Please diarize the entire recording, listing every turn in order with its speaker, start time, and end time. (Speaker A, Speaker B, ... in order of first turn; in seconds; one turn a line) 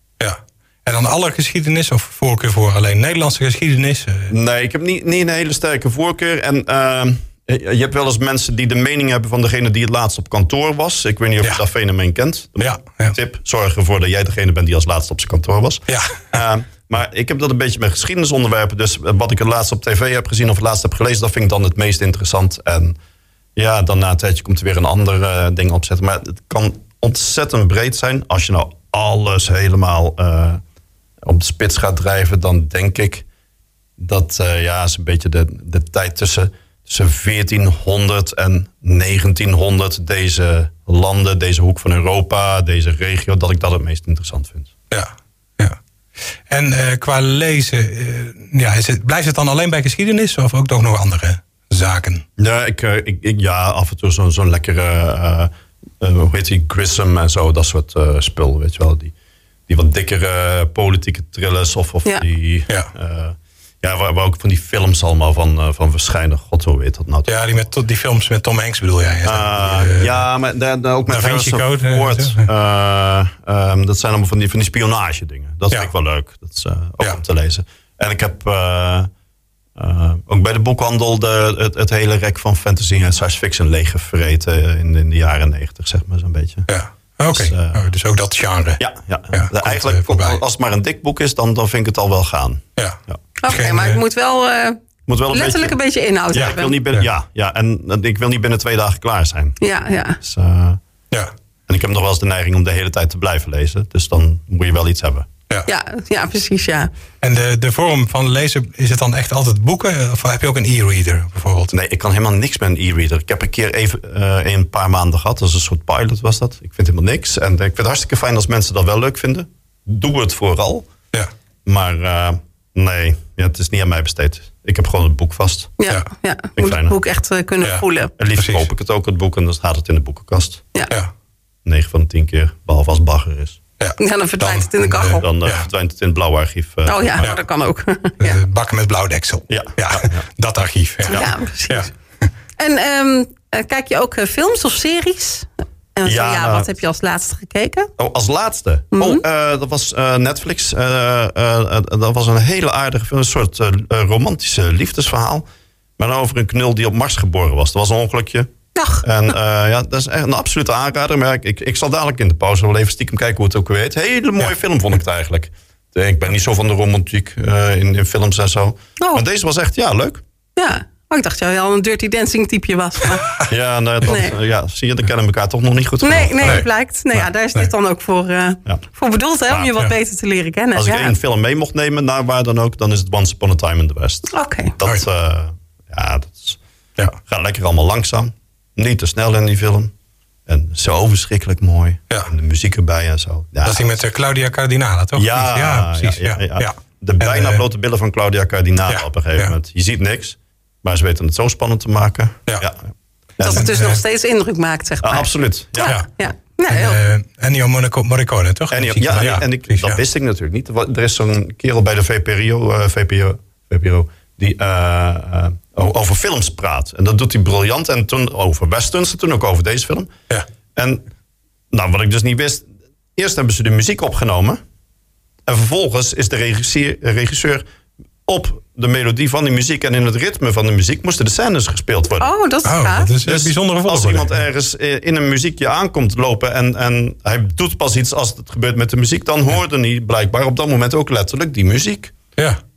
Speaker A: 0.2-4.3
Speaker B: 4.3-23.0
Speaker A: 12.6-13.2
Speaker A: 15.9-16.3
Speaker B: 23.6-30.6
Speaker B: 31.2-33.2
Speaker B: 34.0-44.7
Speaker A: 44.9-45.8
Speaker A: 46.5-52.2
Speaker B: 52.4-59.1
Speaker B: 59.7-67.4
Speaker A: 67.3-70.2
Speaker B: 69.2-79.1
Speaker A: 71.1-72.5
Speaker B: 79.8-86.7
Speaker A: 86.7-90.4
Speaker B: 87.3-87.9
Speaker B: 88.8-93.2
Speaker A: 92.8-94.0
Speaker C: 93.4-94.8
Speaker B: 95.1-95.8
Speaker C: 95.3-96.8
Speaker B: 96.3-99.6
Speaker A: 96.4-97.1
Speaker C: 99.6-100.2
Speaker B: 100.2-100.8
Speaker B: 101.7-105.3
Speaker C: 105.7-106.9
Speaker A: 107.2-111.8
Speaker B: 111.7-120.9
Speaker B: 121.7-125.7
Speaker C: 125.8-128.1
Speaker B: 126.6-127.0
Speaker B: 128.2-130.6
Speaker A: 128.4-128.7
Speaker B: 131.7-133.6
Speaker A: 133.8-135.7
Speaker C: 134.0-135.3
Speaker B: 135.1-137.3
Speaker C: 136.9-138.4
Speaker A: 138.2-141.9
Speaker B: 139.5-140.2
Speaker C: 141.1-141.9
Speaker C: 142.6-147.9
Speaker B: 146.1-146.7
Speaker B: 148.0-155.5
Speaker C: 148.9-149.2
Speaker B: 156.0-158.5
Speaker C: 158.8-159.1
Speaker B: 159.0-170.2
Speaker C: 170.6-173.4
Speaker B: 173.5-176.7
Speaker C: 174.0-174.3
Speaker C: 176.0-181.2
Speaker A: 176.4-177.7
Speaker B: 180.7-186.6
Speaker C: 184.3-184.8
Speaker B: 187.2-189.9
Speaker B: 190.5-193.9
Speaker A: 193.7-197.6
Speaker B: 195.2-202.9
Speaker A: 198.9-199.5
Speaker B: 203.4-203.7
Speaker C: 203.4-207.0
Speaker A: 203.5-204.0
Speaker B: 205.0-206.0
Speaker A: 206.7-210.0
Speaker B: 208.7-220.1
Speaker B: 220.8-221.0
Speaker B: 221.7-224.6
Speaker B: 225.5-227.6
Speaker B: 228.3-232.3
Speaker C: 232.2-233.1
Speaker A: 232.6-234.4
Speaker B: 233.2-242.2